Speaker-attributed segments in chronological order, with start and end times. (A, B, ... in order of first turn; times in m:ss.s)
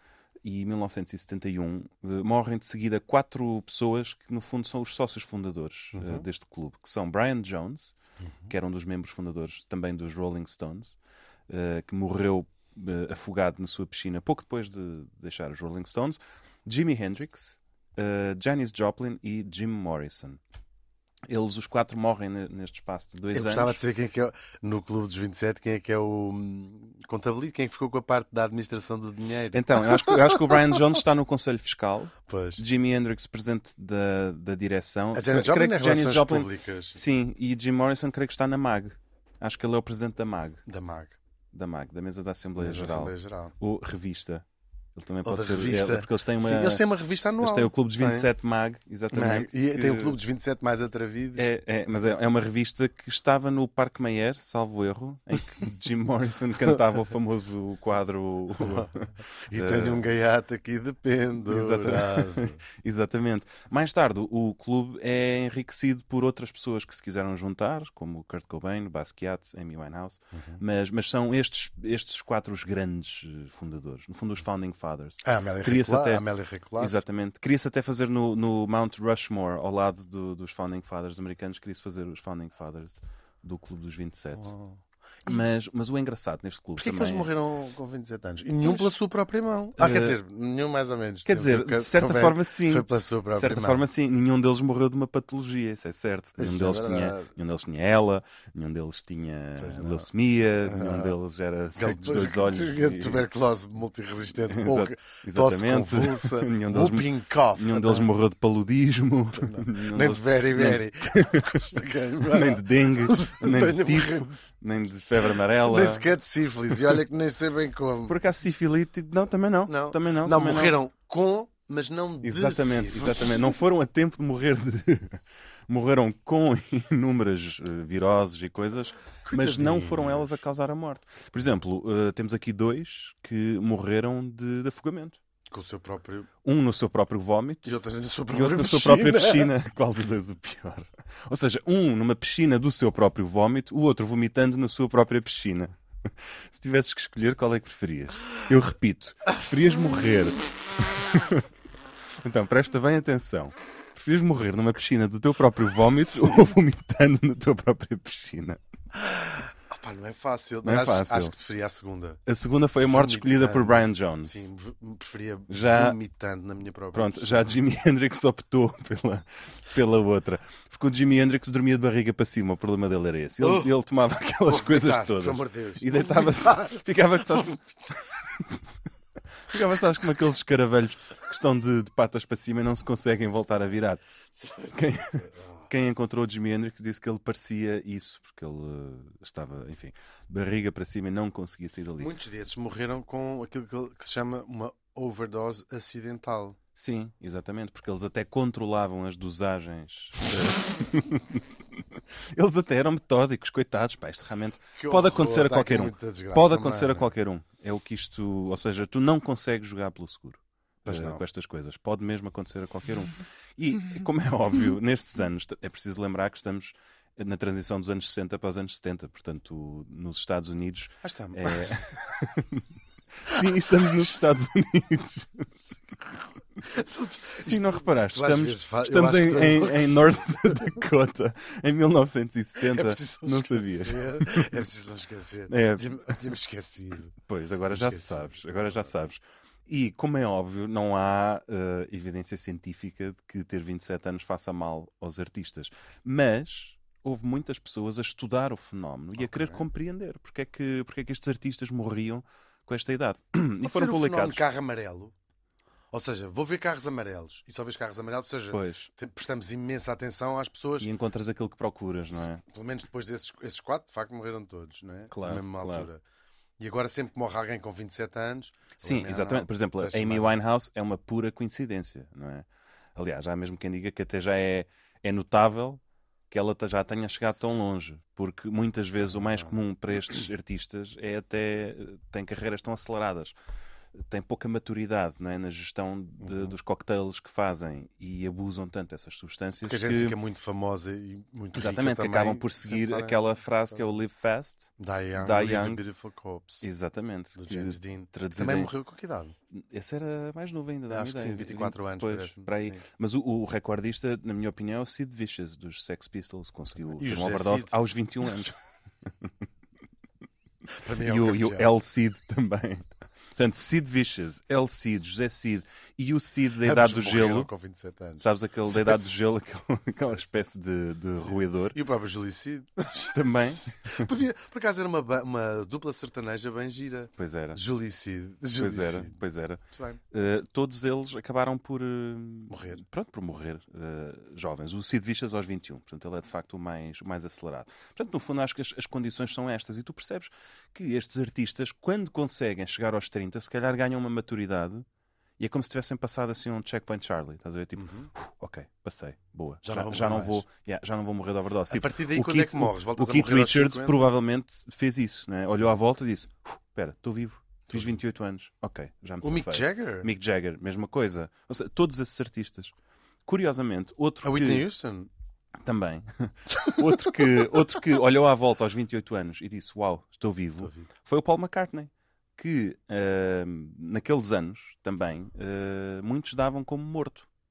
0:00.4-0:08.0 A
0:05.9-0:06.3 B
0:08.2-0:08.5 B
0:08.5-0:11.0 A
0:11.5-0:20.4 A
0:21.3-0:23.8 A
0:23.3-0:30.8 B
0:29.5-0:40.6 A
0:32.2-0:32.6 B
0:35.1-0:37.0 B
0:40.7-0:41.2 B
0:41.5-0:44.4 A
0:42.6-0:43.6 B
0:45.0-0:46.8 A
0:45.2-0:48.3 B
0:47.4-0:50.2 A
0:49.1-0:51.5 B
0:51.4-1:00.0 A
0:58.6-0:58.9 B
0:59.5-1:02.6 B
1:01.4-1:16.2 A
1:10.3-1:10.6 B
1:15.2-1:17.0 B
1:16.8-1:24.5 A
1:24.3-1:25.4 B
1:25.2-1:27.3 A
1:26.8-1:33.8 B
1:28.6-1:28.9 A
1:29.8-1:30.2 A
1:31.3-1:43.3 A
1:36.4-1:37.3 B
1:39.6-1:40.1 B
1:40.6-1:41.1 B
1:41.8-1:48.1 B
1:44.3-1:56.1 A
1:49.4-1:54.4 B
1:55.2-1:58.2 B
1:56.7-1:57.0 A
1:58.1-2:00.8 A
1:59.7-2:03.6 B
2:02.2-2:15.2 A
2:09.3-2:10.4 B
2:15.5-2:16.3 B
2:16.4-2:17.7 A
2:17.6-2:19.5 B
2:18.3-2:31.5 A
2:32.2-2:38.6 A
2:36.1-2:36.5 B
2:39.0-2:42.2 B
2:40.6-2:41.3 A
2:42.3-2:44.5 A
2:42.8-2:47.6 B
2:45.5-2:46.0 A
2:46.9-2:57.8 A
2:53.4-2:53.7 B
2:54.4-2:57.6 B
2:58.3-2:58.7 A
2:59.5-3:04.0 A
3:04.3-3:05.7 B
3:04.7-3:12.1 A
3:12.0-3:16.6 B
3:16.8-3:21.4 A
3:22.4-3:42.7 A
3:24.8-3:27.1 B
3:30.8-3:31.2 B
3:41.0-3:41.8 B
3:43.2-3:45.7 A
3:46.6-3:50.8 B
3:47.4-3:54.5 A
3:52.6-3:57.2 B
3:55.5-3:56.0 A
3:57.2-4:14.4 A
3:57.7-3:58.4 B
4:09.2-4:09.6 B
4:13.6-4:15.1 B
4:15.9-4:20.9 B
4:18.5-4:18.9 A
4:20.8-4:22.4 A
4:22.1-4:26.0 B
4:25.1-4:25.9 A
4:26.6-4:30.3 B
4:28.8-4:43.4 A
4:44.0-4:50.2 A
4:46.2-4:46.5 B
4:49.6-4:53.2 B
4:51.5-4:55.8 A
4:54.8-4:56.6 B
4:56.6-4:58.7 A
4:57.3-4:59.4 B
4:59.5-5:09.3 A
5:00.9-5:02.8 B
5:06.9-5:07.8 B
5:10.8-5:11.7 B
5:11.0-5:17.5 A
5:16.6-5:19.2 B
5:18.2-5:21.8 A
5:21.2-5:29.2 B
5:23.1-5:24.1 A
5:27.2-5:27.6 A
5:28.6-5:44.9 A
5:29.7-5:30.0 B
5:32.5-5:32.8 B
5:45.4-6:02.7 A
5:47.8-5:48.1 B
5:49.6-5:50.4 B
5:51.7-5:54.1 B
5:57.7-5:58.0 B
5:59.2-6:00.1 B
6:03.3-6:04.7 A
6:04.2-6:05.1 B
6:05.6-6:17.3 A
6:10.6-6:10.9 B